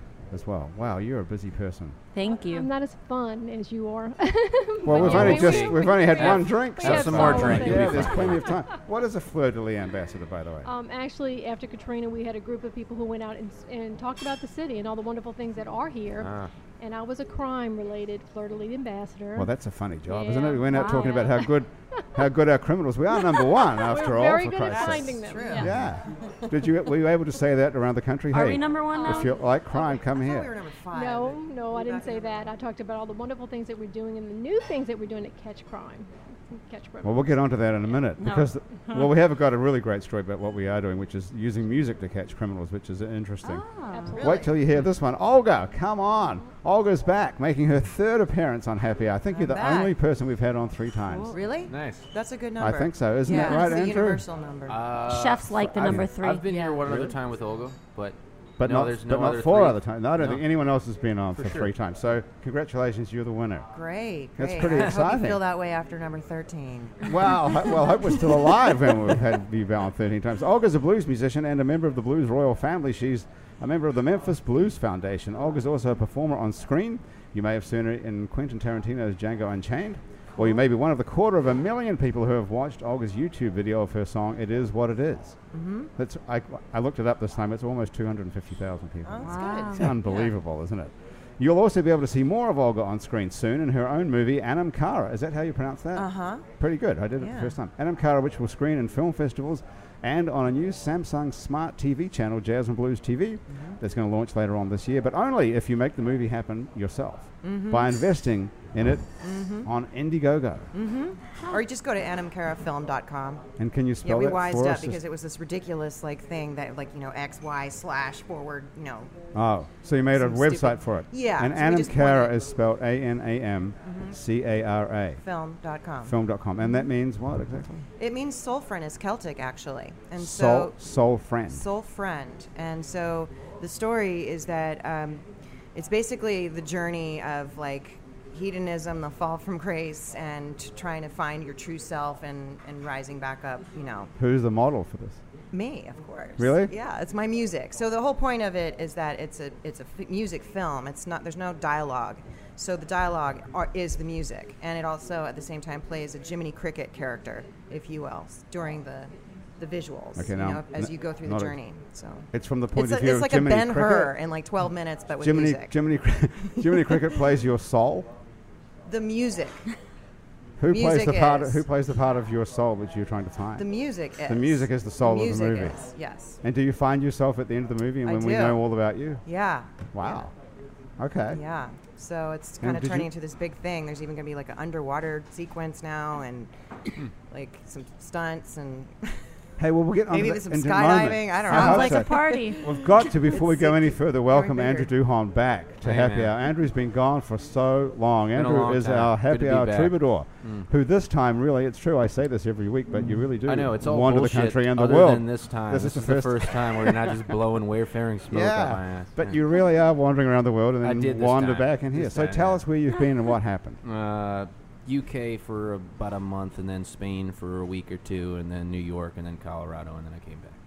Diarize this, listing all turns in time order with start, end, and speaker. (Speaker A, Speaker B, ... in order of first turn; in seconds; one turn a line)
Speaker A: 0.3-2.0
Speaker B: 2.1-2.7
Speaker C: 2.3-8.7
Speaker A: 4.8-10.7
Speaker D: 4.9-8.6
Speaker C: 10.6-19.5
Speaker D: 16.2-16.5
Speaker A: 19.3-30.5
Speaker C: 20.1-21.4
Speaker B: 20.7-21.4
Speaker C: 23.3-25.7
Speaker E: 25.2-25.7
Speaker B: 28.3-29.4
Speaker E: 28.9-32.5
Speaker C: 30.9-37.4
Speaker A: 37.0-43.6
Speaker B: 38.2-39.1
Speaker B: 43.4-44.2
Speaker C: 43.9-44.5
Speaker A: 44.2-51.4
Speaker E: 49.3-49.9
Speaker B: 51.1-51.4
Speaker E: 51.3-54.8
Speaker D: 51.7-52.1
Speaker A: 52.6-54.2
Speaker B: 53.2-53.8
Speaker D: 54.6-60.4
Speaker B: 55.1-56.4
Speaker A: 55.6-56.1
Speaker E: 56.5-57.1
Speaker A: 58.6-63.7
Speaker D: 61.3-61.7
Speaker E: 63.7-67.1
Speaker A: 64.4-65.4
Speaker A: 67.0-85.4
Speaker E: 85.5-85.9
Speaker A: 86.0-110.7
Speaker E: 89.0-90.3
Speaker B: 89.2-89.9
Speaker E: 95.9-96.4
Speaker E: 97.2-97.5
Speaker E: 103.5-103.8
Speaker E: 107.4-107.9
Speaker E: 109.2-109.7
Speaker E: 110.7-113.5
Speaker B: 111.3-111.6
Speaker A: 113.6-115.0
Speaker E: 114.0-119.1
Speaker A: 119.3-125.2
Speaker E: 120.2-122.3
Speaker E: 123.8-124.2
Speaker E: 125.2-126.1
Speaker A: 126.0-127.8
Speaker E: 128.0-130.7
Speaker A: 130.2-131.7
Speaker E: 131.5-135.2
Speaker E: 135.7-144.1
Speaker A: 144.2-145.2
Speaker E: 145.5-165.8
Speaker A: 146.4-146.7
Speaker A: 160.2-161.6
Speaker A: 162.3-164.1
Speaker A: 165.2-168.1
Speaker E: 166.5-167.1
Speaker E: 168.9-169.7
Speaker A: 170.6-173.7
Speaker E: 170.7-171.6
Speaker E: 173.6-176.4
Speaker A: 174.2-175.8
Speaker A: 176.4-179.2
Speaker E: 178.0-178.6
Speaker E: 179.2-179.8
Speaker A: 179.9-180.3
Speaker A: 181.0-181.4
Speaker E: 181.3-186.5
Speaker A: 182.6-183.1
Speaker E: 187.3-189.2
Speaker A: 189.6-207.3
Speaker E: 190.1-194.9
Speaker B: 191.5-192.7
Speaker D: 195.8-196.3
Speaker D: 198.3-200.7
Speaker D: 203.4-209.4
Speaker A: 208.3-213.8
Speaker D: 210.8-212.6
Speaker D: 213.8-220.6